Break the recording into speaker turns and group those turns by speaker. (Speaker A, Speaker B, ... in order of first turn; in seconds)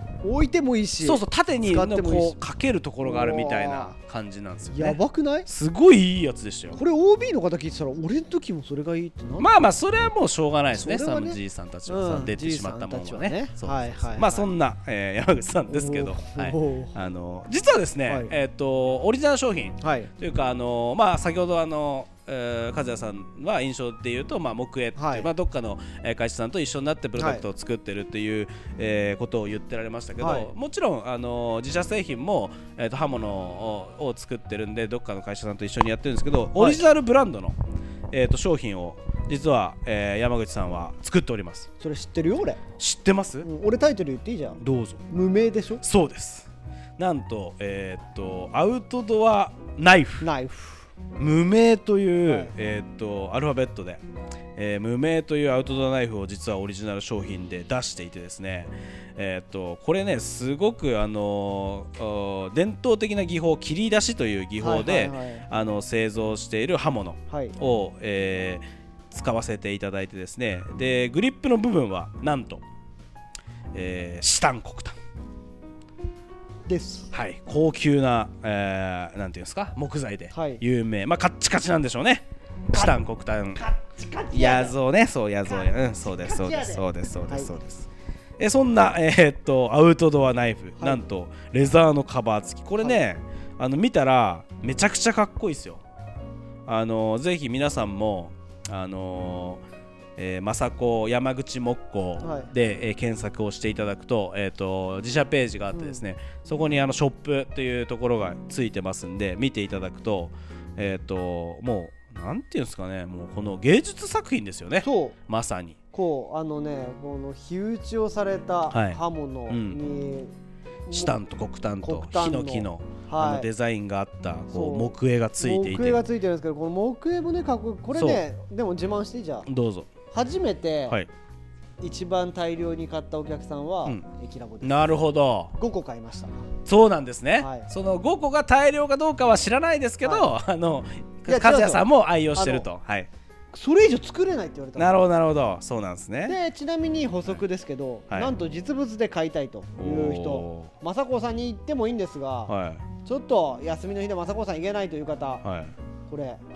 Speaker A: 0.2-2.4, 3.0-3.9, 4.7-5.5, 6.7-9.5, 10.7-14.5, 15.7-16.9, 18.1-18.3, 19.8-20.1, 24.9-25.3, 27.2-27.4, 30.2-30.5, 36.5-36.8, 41.8-42.6, 43.4-45.8, 50.2-50.9, 52.2-52.5, 64.6-65.5, 67.3-67.5, 76.7-77.1, 80.3-80.6, 83.6-84.8, 85.4-87.5, 90.8-91.0, 102.2-102.5, 105.7-106.0, 114.8-115.2, 115.9-120.3, 120.9-121.2, 121.8-123.5, 124.5-129.5, 130.1-131.0, 131.8-135.0, 135.5-136.5, 137.4-137.7, 140.0-140.3, 141.2-142.7, 143.5-145.0, 146.2-155.4, 156.1-156.4
Speaker B: 1.0-6.8, 9.4-37.6, 38.1-41.7, 42.8-43.5, 44.6-45.0, 45.8-50.3, 51.2-54.0, 54.5-72.6, 73.7-74.9, 77.1-83.7, 84.3-95.8, 96.7-99.6, 100.2-115.8, 118.7-119.8, 120.9-126.0, 127.9-128.2, 129.4-129.9, 134.6-135.5, 136.7-143.1, 144.8-146.4, 149.8-150.7, 152.5-152.8, 155.4-155.7